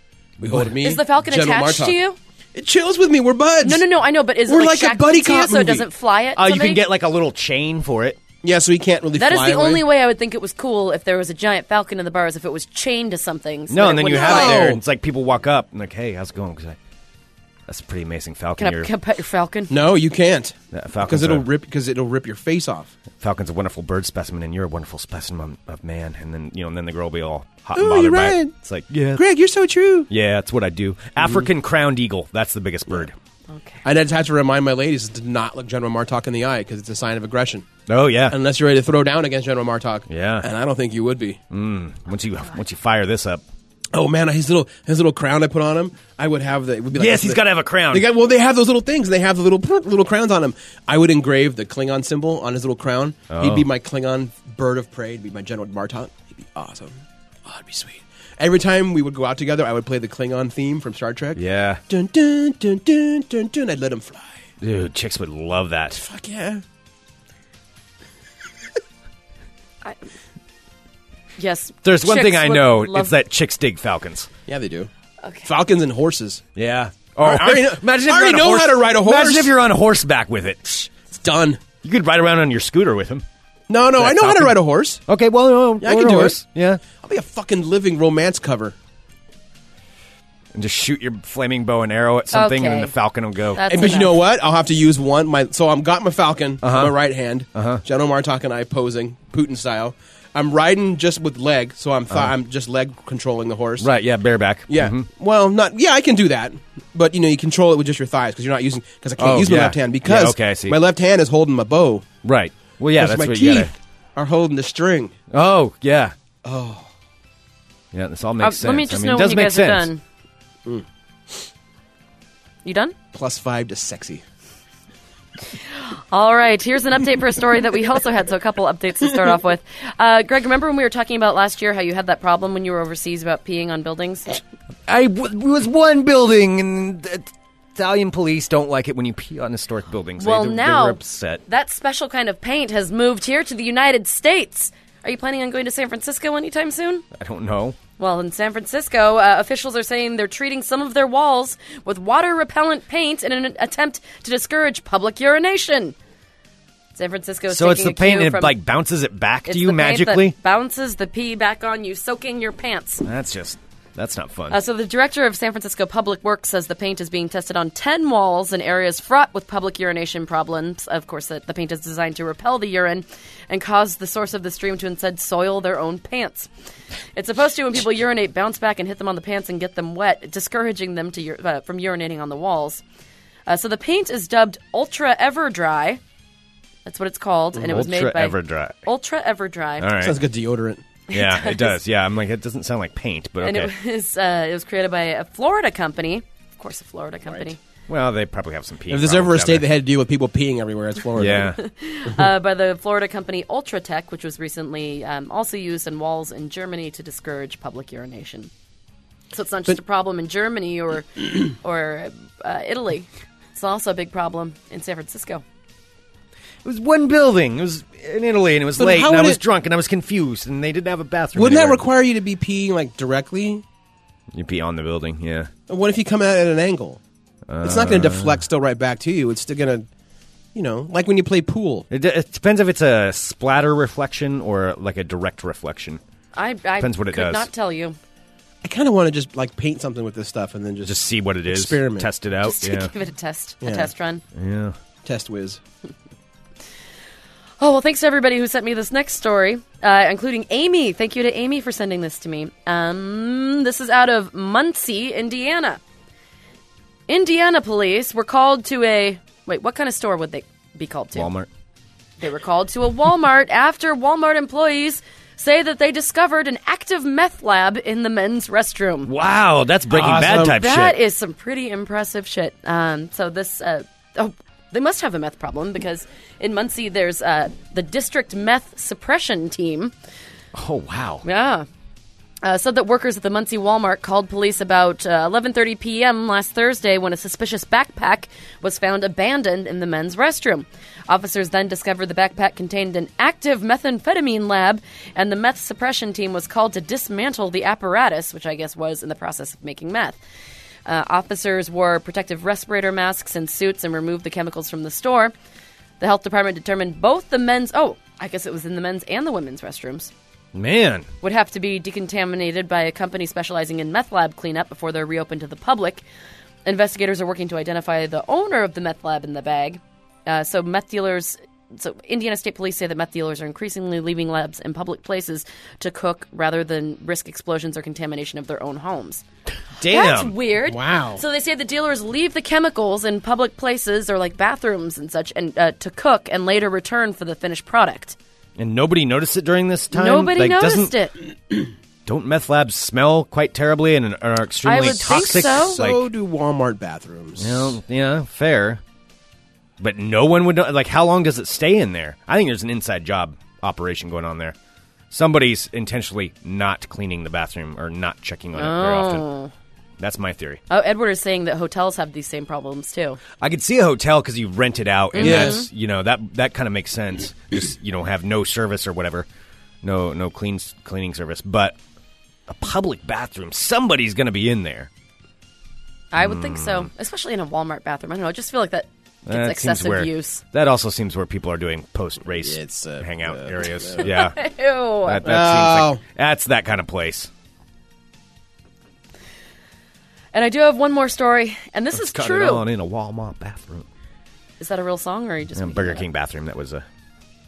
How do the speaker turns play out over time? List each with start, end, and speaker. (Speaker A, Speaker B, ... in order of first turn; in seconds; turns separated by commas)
Speaker A: 0.4-2.0, Speaker B: 0.4-0.7, Speaker C: 0.8-2.2, Speaker A: 2.5-3.9, Speaker C: 3.6-6.8, Speaker A: 4.5-5.9, Speaker B: 6.4-8.2, Speaker A: 8.4-9.8, Speaker C: 9.2-14.7, Speaker B: 13.7-16.8, Speaker A: 14.1-14.8, Speaker B: 17.7-18.9, Speaker C: 18.6-19.7, Speaker A: 19.7-22.9, Speaker B: 20.7-21.5, Speaker B: 23.2-29.2, Speaker A: 27.8-28.6, Speaker A: 29.2-30.1, Speaker B: 30.1-33.1, Speaker A: 31.2-31.5, Speaker C: 33.5-33.8, Speaker A: 33.8-37.7, Speaker B: 37.9-38.4, Speaker A: 38.3-41.4, Speaker B: 40.1-40.5, Speaker B: 41.5-43.4, Speaker A: 43.9-64.3, Speaker B: 46.9-48.1, Speaker B: 53.3-53.7, Speaker B: 61.4-61.8, Speaker B: 64.6-66.0, Speaker A: 65.9-66.6, Speaker C: 71.4-73.1, Speaker B: 71.8-74.3, Speaker A: 74.5-74.9, Speaker C: 75.2-75.5, Speaker A: 75.5-76.4, Speaker B: 76.6-80.9, Speaker A: 77.2-79.5, Speaker A: 81.1-81.6, Speaker B: 81.8-83.2, Speaker A: 83.7-85.0, Speaker B: 84.0-86.8, Speaker A: 85.8-86.4, Speaker A: 87.0-88.8, Speaker B: 90.5-93.6, Speaker C: 92.3-92.9, Speaker C: 93.5-94.2, Speaker A: 93.7-103.9, Speaker B: 96.6-97.0, Speaker B: 97.5-97.8, Speaker B: 103.8-105.1, Speaker A: 104.7-112.1, Speaker B: 109.2-110.8, Speaker B: 112.2-113.7, Speaker A: 113.0-115.2, Speaker B: 115.3-116.2, Speaker A: 116.4-116.9, Speaker B: 117.9-119.9, Speaker C: 118.4-120.0, Speaker C: 122.6-123.0, Speaker A: 123.1-124.2, Speaker C: 125.7-134.4, Speaker B: 134.9-141.4, Speaker C: 140.2-147.1, Speaker B: 147.1-147.8, Speaker C: 148.0-155.9, Speaker C: 156.9-158.6, Speaker B: 157.5-160.4, Speaker C: 159.5-163.1, Speaker B: 163.0-164.6, Speaker C: 164.5-176.5, Speaker C: 177.2-182.8, Speaker C: 183.5-186.0, Speaker C: 186.8-189.9, Speaker B: 187.6-188.8, Speaker B: 189.8-190.2, Speaker A: 190.0-190.8, Speaker C: 191.1-191.8, Speaker B: 191.1-193.7, Speaker C: 193.4-197.6, Speaker B: 197.9-199.7, Speaker A: 198.9-201.5, Speaker B: 201.2-201.6, Speaker C: 201.6-208.5, Speaker C: 209.3-215.4, Speaker B: 216.6-221.8, Speaker A: 218.8-219.4, Speaker A: 221.3-223.6, Speaker B: 224.3-225.5, Speaker A: 225.7-227.0, Speaker B: 227.5-228.4, Speaker A: 227.6-229.9, Speaker A: 230.6-231.9, Speaker B: 231.9-236.0, Speaker C: 236.3-238.0, Speaker B: 236.8-237.5, Speaker A: 238.6-242.1, Speaker B: 240.8-242.9, Speaker C: 242.4-244.2, Speaker A: 243.6-243.9, Speaker B: 244.3-244.8, Speaker A: 245.1-245.6, Speaker C: 247.6-255.8, Speaker C: 257.1-261.3, Speaker B: 261.1-261.5, Speaker C: 262.2-269.1, Speaker B: 269.1-271.0, Speaker A: 269.9-270.6, Speaker C: 270.6-279.9, Speaker B: 280.6-281.2, Speaker C: 281.2-281.7, Speaker C: 282.4-300.2, Speaker C: 300.9-305.3, Speaker C: 306.0-310.1, Speaker B: 310.5-311.1, Speaker C: 311.2-316.0, Speaker C: 316.6-329.2, Speaker B: 329.8-330.3, Speaker C: 329.9-338.2, Speaker A: 330.6-331.2, Speaker B: 338.6-340.9, Speaker C: 339.9-341.2, Speaker B: 342.1-346.1, Speaker C: 344.6-345.8, Speaker A: 345.1-347.8, Speaker B: 347.4-348.8, Speaker B: 349.8-354.6, Speaker B: 355.1-359.3, Speaker C: 358.6-359.5, Speaker B: 360.0-360.6, Speaker C: 360.7-363.2, Speaker B: 363.4-369.3, Speaker C: 365.1-365.7, Speaker A: 365.2-365.6, Speaker B: 369.8-371.8, Speaker B: 372.5-374.9, Speaker C: 376.1-380.4, Speaker B: 376.2-376.9, Speaker B: 379.3-384.4, Speaker A: 382.4-384.1, Speaker C: 384.0-385.2, Speaker B: 385.1-387.3, Speaker A: 385.2-386.0, Speaker C: 390.3-392.7, Speaker B: 391.9-393.9, Speaker C: 394.6-396.1, Speaker B: 395.6-396.9